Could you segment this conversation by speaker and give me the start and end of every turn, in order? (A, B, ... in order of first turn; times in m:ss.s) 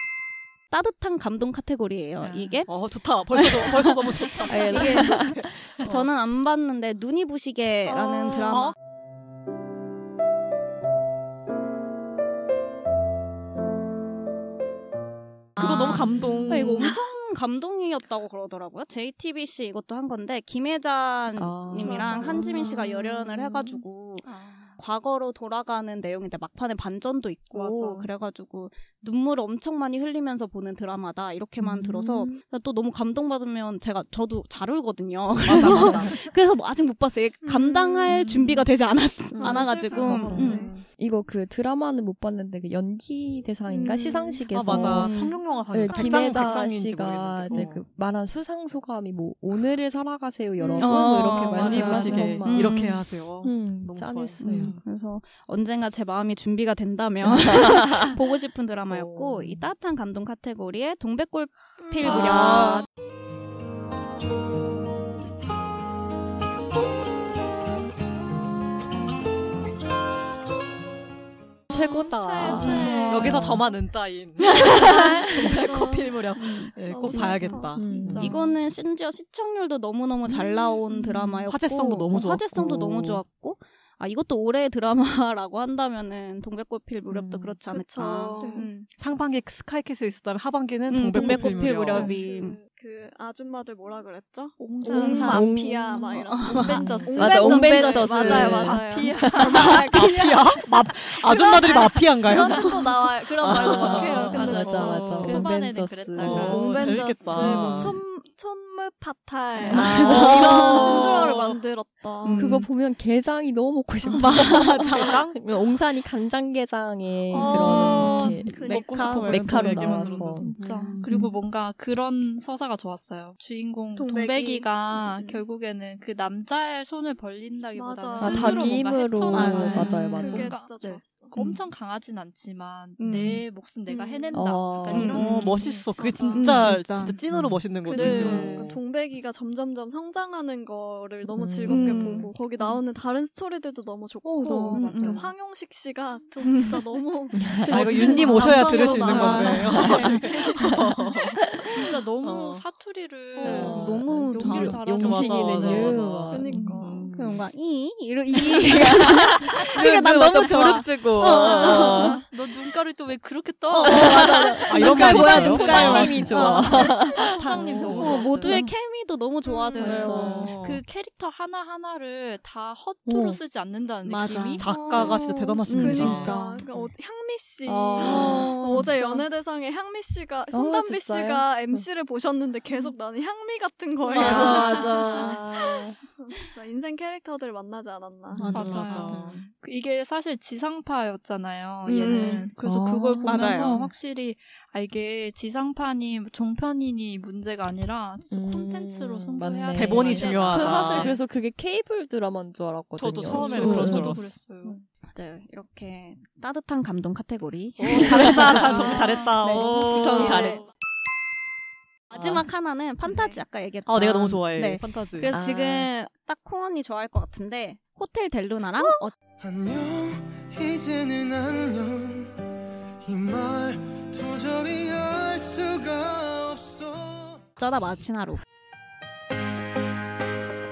0:00.7-0:02.7 A
0:02.7-0:05.5 B
0:03.5-0:08.7 A
0:04.5-0:05.7 C
0:07.8-0:08.7 D
0:08.5-0:08.7 B
0:15.6-0:40.7 A
0:15.6-0:16.9 B
0:16.1-0:16.4 C
0:21.4-0:23.6 C
0:21.8-0:23.7 E
0:24.2-0:24.8 E
0:27.5-0:28.0 B
0:31.6-0:32.3 C
0:35.4-0:36.2 B
0:35.6-0:36.1 C
0:37.4-0:38.4 D
0:38.1-0:38.6 E
0:39.4-0:40.8 E
0:39.4-0:40.7 D
0:40.0-0:52.8 C
0:43.7-0:46.5 D
0:44.5-0:47.8 B
0:44.7-0:45.4 A
0:50.7-0:53.1 A
0:51.3-0:54.8 B
0:53.4-0:54.8 C
0:54.4-1:02.9 A
0:57.2-0:58.1 C
0:58.9-0:59.7 C
1:01.8-1:02.8 D
1:02.0-1:02.8 C
1:11.7-1:13.6 C
1:11.7-1:13.6 D
1:12.4-1:13.6 E
1:13.1-1:18.1 B
1:14.6-1:15.7 A
1:14.7-1:16.3 D
1:16.4-1:17.6 A
1:16.9-1:18.4 D
1:17.8-1:18.4 C
1:18.0-1:18.5 E
1:18.1-1:28.9 A
1:21.5-1:23.2 B
1:27.1-1:27.6 C
1:27.7-1:28.7 D
1:28.4-1:28.7 E
1:29.0-1:32.1 B
1:30.9-1:32.6 A
1:31.2-1:39.0 D
1:32.0-1:32.3 E
1:34.6-1:35.7 E
1:34.8-1:40.5 A
1:34.9-1:39.9 C
1:36.5-1:40.1 E
1:39.6-1:42.8 B
1:41.3-1:44.8 A
1:43.4-1:45.5 B
1:43.6-1:45.2 D
1:43.9-1:46.6 C
1:44.3-1:47.5 E
1:46.2-1:48.0 B
1:46.3-1:52.6 D
1:49.6-1:49.9 E
1:49.6-1:51.3 A
1:49.7-1:51.1 C
1:49.9-1:51.6 B
1:52.2-1:52.7 A
1:52.4-1:58.7 C
1:54.1-1:55.4 B
1:57.4-1:59.3 D
1:57.4-2:00.5 B
1:57.5-2:00.3 A
1:59.3-2:01.3 C
2:00.0-2:16.8 E
2:04.0-2:05.4 D
2:07.7-2:08.8 D
2:08.2-2:10.6 C
2:09.3-2:10.2 A
2:09.4-2:11.3 D
2:13.0-2:13.4 A
2:13.9-2:14.5 D
2:14.3-2:15.2 C
2:14.9-2:15.6 A
2:15.1-2:18.8 B
2:16.3-2:16.6 D
2:16.3-2:17.2 A
2:17.3-2:18.7 C
2:17.8-2:30.5 D
2:18.0-2:18.4 E
2:21.3-2:22.3 C
2:21.6-2:22.3 A
2:24.2-2:25.3 C
2:24.6-2:25.3 E
2:24.7-2:25.2 A
2:26.4-2:27.0 A
2:27.3-2:31.6 C
2:27.7-2:31.4 B
2:28.1-2:30.0 A
2:31.7-2:37.1 E
2:32.2-2:32.6 B
2:33.4-2:34.9 A
2:33.4-2:36.8 C
2:33.7-2:37.4 B
2:36.3-2:36.9 D
2:37.1-2:42.3 A
2:38.5-2:42.2 C
2:41.3-2:48.7 E
2:41.3-2:42.0 B
2:43.7-2:50.5 A
2:43.8-2:48.7 C
2:44.6-2:46.8 B
2:47.8-2:48.2 B
2:49.4-2:54.7 E
2:49.7-2:50.5 C
2:50.0-2:50.8 B
2:53.1-2:53.4 C
2:54.0-2:56.7 A
2:54.3-2:54.6 C
2:54.6-2:56.4 B
2:54.7-3:05.6 D
2:57.6-2:58.8 C
2:58.0-2:59.0 A
2:58.2-2:59.2 E
3:00.5-3:01.8 C
3:04.1-3:06.0 C
3:04.1-3:05.3 E
3:04.2-3:05.4 A
3:06.2-3:08.8 D
3:08.4-3:09.5 B
3:08.5-3:21.2 E
3:09.1-3:09.4 C
3:11.9-3:12.5 D
3:12.1-3:13.9 C
3:13.2-3:13.9 A
3:18.3-3:24.2 C
3:19.7-3:21.2 B
3:20.2-3:20.7 A
3:23.0-3:24.4 B
3:23.2-3:24.8 E
3:24.7-3:30.6 A
3:27.8-3:30.6 B
3:28.6-3:30.6 E
3:29.9-3:30.6 C
3:32.1-3:39.1 A
3:32.1-3:32.4 B
3:33.1-3:33.4 E
3:33.9-3:35.3 B
3:35.3-3:35.9 C
3:39.4-3:42.3 F
3:43.1-3:47.4 F
3:47.6-3:48.4 A